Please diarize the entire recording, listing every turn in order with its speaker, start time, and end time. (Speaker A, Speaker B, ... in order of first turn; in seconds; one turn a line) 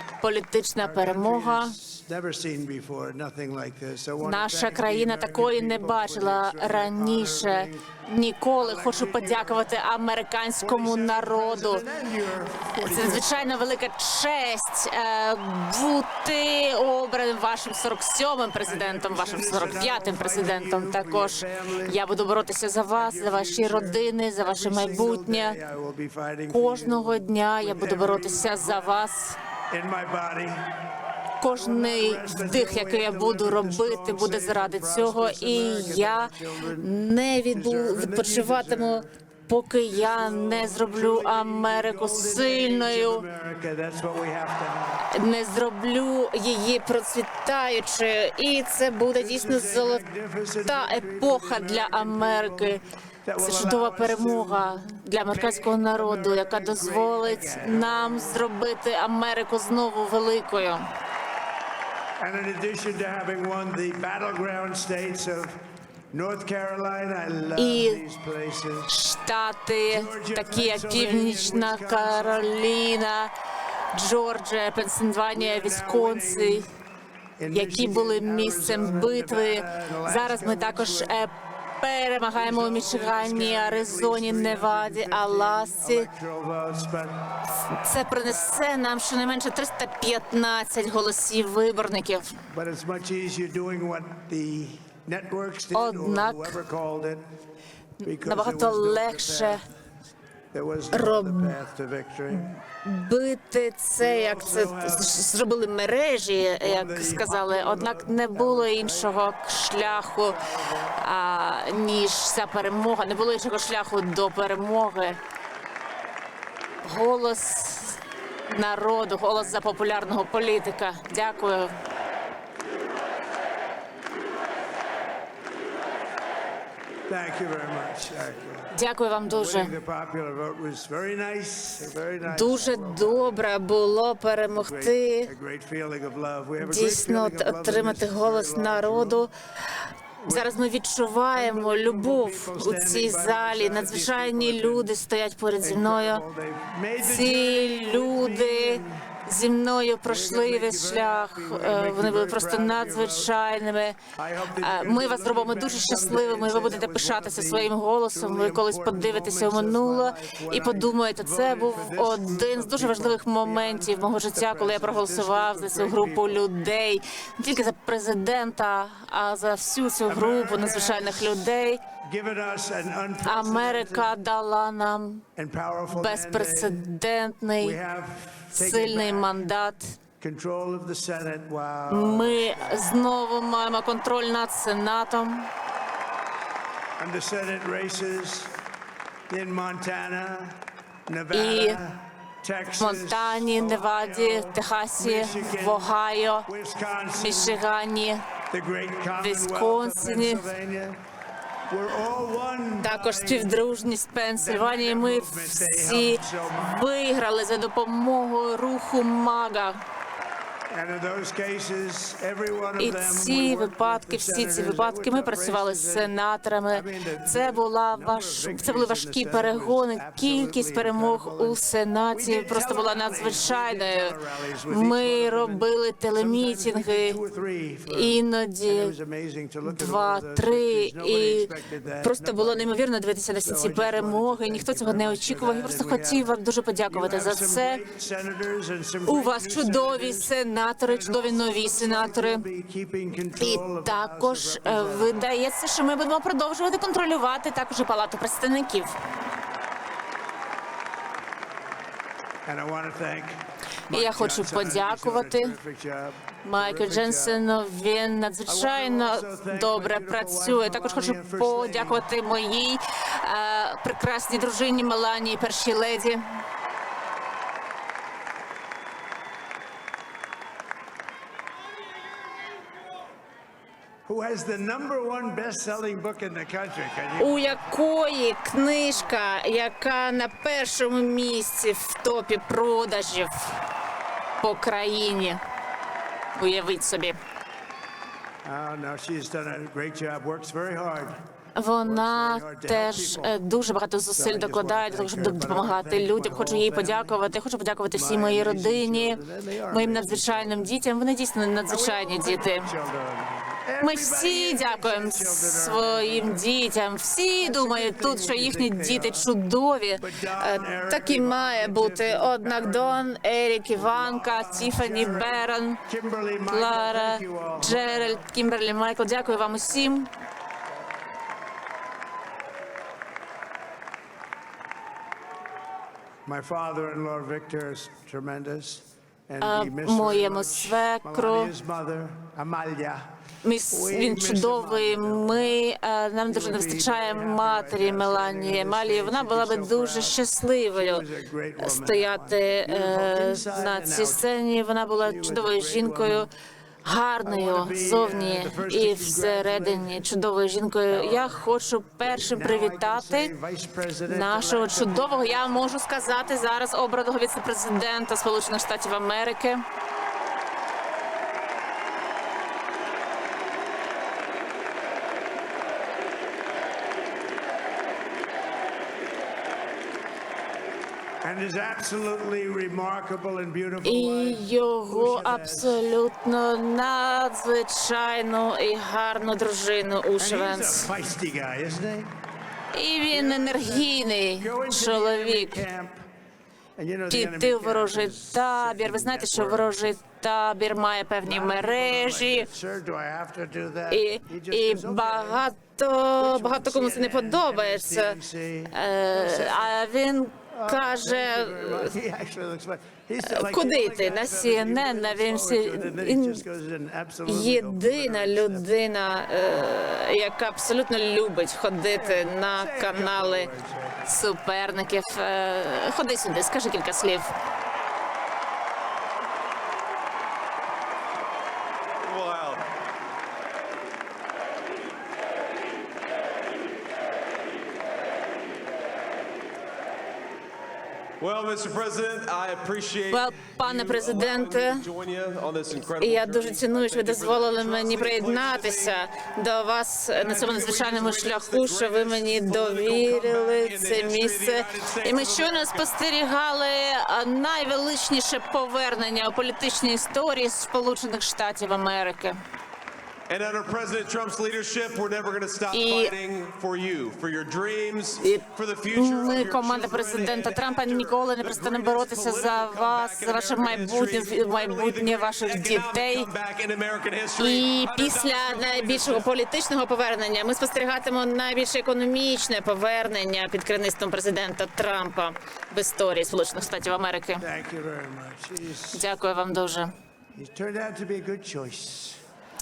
Speaker A: 0.2-1.8
Speaker B: 0.8-7.9
Speaker A: 4.2-11.8
Speaker B: 8.6-9.7
Speaker B: 10.6-13.6
Speaker A: 12.7-25.6
Speaker B: 18.6-22.0
Speaker B: 22.9-29.0
Speaker A: 26.5-29.4
Speaker B: 29.7-30.7
Speaker A: 31.4-43.2
Speaker B: 31.5-36.9
Speaker B: 37.5-39.1
Speaker B: 39.9-45.0
Speaker A: 45.1-50.0
Speaker B: 49.1-58.5
Speaker A: 50.6-52.8
Speaker A: 53.4-60.8
Speaker B: 62.2-65.6
Speaker B: 66.1-68.9
Speaker A: 67.5-68.0
Speaker A: 68.9-73.3
Speaker B: 69.9-72.6
Speaker A: 73.9-76.7
Speaker B: 75.3-76.7
Speaker B: 77.4-81.2
Speaker A: 77.5-86.1
Speaker B: 82.3-87.3
Speaker A: 87.7-92.3
Speaker B: 88.2-88.7
Speaker B: 92.5-97.2
Speaker A: 95.7-96.6
Speaker B: 98.0-99.6
Speaker A: 98.0-99.6
Speaker B: 100.5-102.5
Speaker A: 100.9-101.6
Speaker A: 102.3-110.4
Speaker B: 104.0-105.2
Speaker B: 106.6-111.0
Speaker A: 111.0-115.2
Speaker A: 116.8-118.0
Speaker A: 118.5-121.7
Speaker B: 127.1-128.7
Speaker A: 128.7-129.7
Speaker B: 129.3-133.4
Speaker A: 132.2-135.3
Speaker B: 134.6-139.2
Speaker A: 136.6-139.3
Speaker B: 140.2-140.5
Speaker A: 140.3-146.2
Speaker B: 141.3-144.9
Speaker B: 145.6-149.1
Speaker A: 147.0-154.0
Speaker B: 150.1-153.3
Speaker B: 154.2-166.4
Speaker A: 154.6-171.8
Speaker B: 170.1-171.3
Speaker B: 172.0-174.1
Speaker A: 173.2-175.2
Speaker B: 175.3-176.8
Speaker A: 175.9-177.8
Speaker B: 177.6-179.3
Speaker A: 178.5-179.9
Speaker B: 180.2-182.8
Speaker A: 181.9-185.5
Speaker B: 187.0-188.5
Speaker B: 189.3-195.9
Speaker A: 191.3-191.8
Speaker A: 192.8-196.5
Speaker B: 196.4-197.6
Speaker A: 197.2-198.2
Speaker B: 198.5-201.0
Speaker A: 199.2-200.5
Speaker B: 201.7-203.5
Speaker A: 202.8-209.8
Speaker B: 204.3-206.9
Speaker B: 210.7-216.1
Speaker A: 212.8-224.1
Speaker B: 216.7-221.6
Speaker B: 222.1-232.7
Speaker A: 224.7-227.2
Speaker A: 227.9-228.9
Speaker A: 229.6-231.5
Speaker A: 232.0-237.8
Speaker B: 233.4-236.3
Speaker B: 236.9-245.2
Speaker A: 239.1-242.4
Speaker A: 243.4-248.9
Speaker B: 252.4-257.4
Speaker A: 253.9-255.5
Speaker A: 256.4-266.2
Speaker B: 258.4-262.0
Speaker B: 274.1-277.6
Speaker A: 277.2-283.6
Speaker A: 284.4-285.4
Speaker A: 286.4-287.2
Speaker B: 288.4-291.2
Speaker A: 291.6-302.7
Speaker B: 291.8-293.3
Speaker B: 294.1-297.1
Speaker B: 297.9-300.7
Speaker B: 301.7-306.4
Speaker A: 303.8-315.8
Speaker B: 307.4-309.3
Speaker B: 310.0-313.0
Speaker B: 313.7-318.2
Speaker A: 316.5-320.1
Speaker B: 326.2-333.1
Speaker A: 329.4-331.5
Speaker A: 333.4-341.1
Speaker B: 333.7-335.6
Speaker B: 336.2-340.2
Speaker B: 340.7-344.2
Speaker A: 341.6-346.3
Speaker B: 345.0-346.3
Speaker A: 346.8-353.3
Speaker B: 347.2-350.0
Speaker B: 350.9-351.4
Speaker B: 352.0-356.3
Speaker A: 354.1-359.6
Speaker B: 371.2-375.8
Speaker A: 373.8-380.9
Speaker B: 380.2-382.1
Speaker A: 382.7-385.6
Speaker B: 383.1-386.0
Speaker B: 386.8-389.9
Speaker A: 387.1-392.5
Speaker B: 391.2-395.4
Speaker A: 393.9-398.2
Speaker B: 396.2-399.8
Speaker A: 398.7-401.9
Speaker B: 400.5-408.7
Speaker A: 403.2-406.4
Speaker A: 407.2-413.5
Speaker B: 411.9-414.0
Speaker A: 414.1-417.3
Speaker C: 422.0-422.6
Speaker C: 431.2-439.0
Speaker A: 433.1-434.9
Speaker A: 436.0-452.4
Speaker C: 440.1-445.9
Speaker C: 453.3-469.3
Speaker A: 455.7-456.1
Speaker A: 458.2-466.3
Speaker A: 467.4-477.4
Speaker B: 477.4-479.0
Speaker A: 478.9-479.9
Speaker B: 480.3-482.2